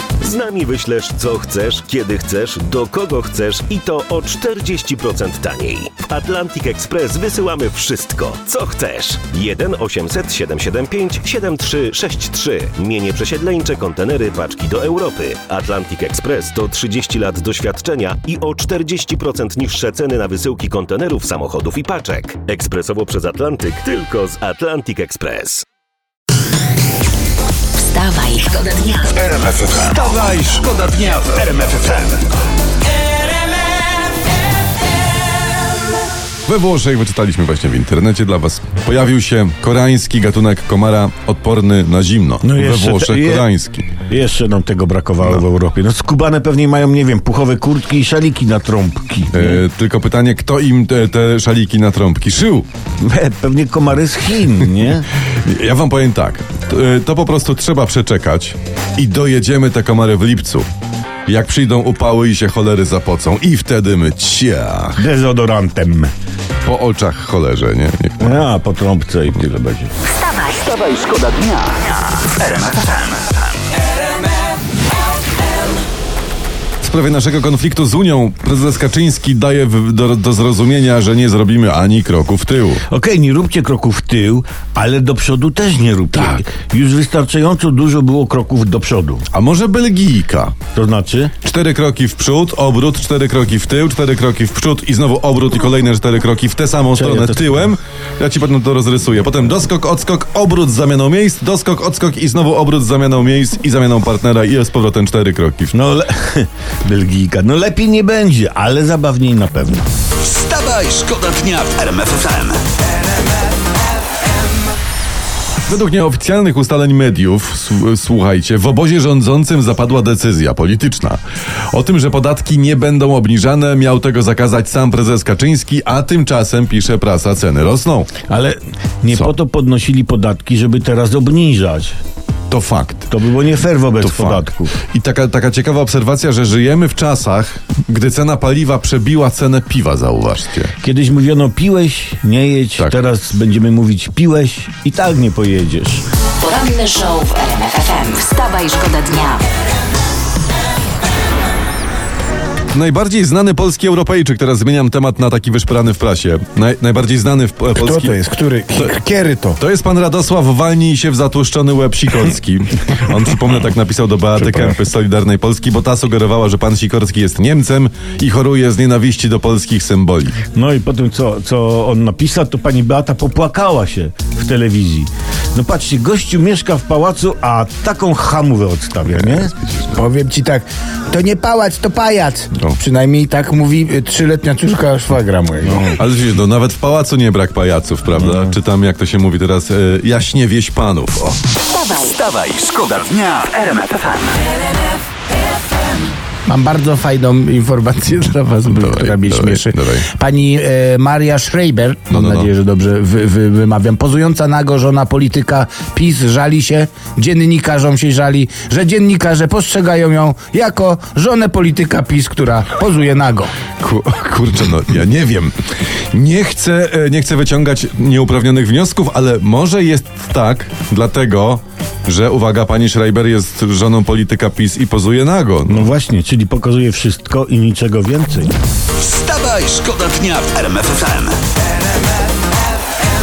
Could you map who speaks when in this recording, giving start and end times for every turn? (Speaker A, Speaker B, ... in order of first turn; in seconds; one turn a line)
Speaker A: 0.2-25.6
Speaker B: 27.8-29.2
Speaker C: 29.9-32.2
Speaker D: 36.4-43.9
Speaker E: 42.4-43.5
Speaker E: 44.1-49.6
Speaker D: 49.3-52.7
Speaker E: 53.0-55.1
Speaker D: 55.2-60.6
Speaker D: 61.2-65.0
Speaker E: 65.0-66.1
Speaker D: 66.6-68.4
Speaker E: 68.2-69.9
Speaker B: 70.1-70.6
Speaker C: 70.6-73.4
Speaker D: 76.8-82.8
Speaker E: 82.9-89.2
Speaker D: 89.3-90.6
Speaker E: 90.7-91.3
Speaker D: 91.4-105.7
Speaker E: 96.9-97.6
Speaker E: 105.7-109.9
Speaker C: 110.2-112.6
Speaker D: 115.7-128.1
Speaker E: 128.3-132.0
Speaker D: 132.5-133.1
Speaker E: 133.1-134.7
Speaker D: 134.0-140.7
Speaker E: 140.8-146.0
Speaker B: 146.4-149.4
Speaker D: 152.7-158.2
Speaker F: 157.7-159.6
Speaker D: 159.6-170.4
Speaker E: 170.5-179.6
Speaker F: 179.9-186.0
Speaker D: 185.9-191.4
Speaker E: 188.2-188.4
Speaker C: 191.8-194.4
Speaker F: 196.4-213.5
Speaker D: 198.7-200.0
Speaker D: 202.1-202.5
Speaker D: 213.8-215.5
Speaker D: 216.1-225.9
Speaker E: 225.7-228.5
Speaker C: 229.0-231.4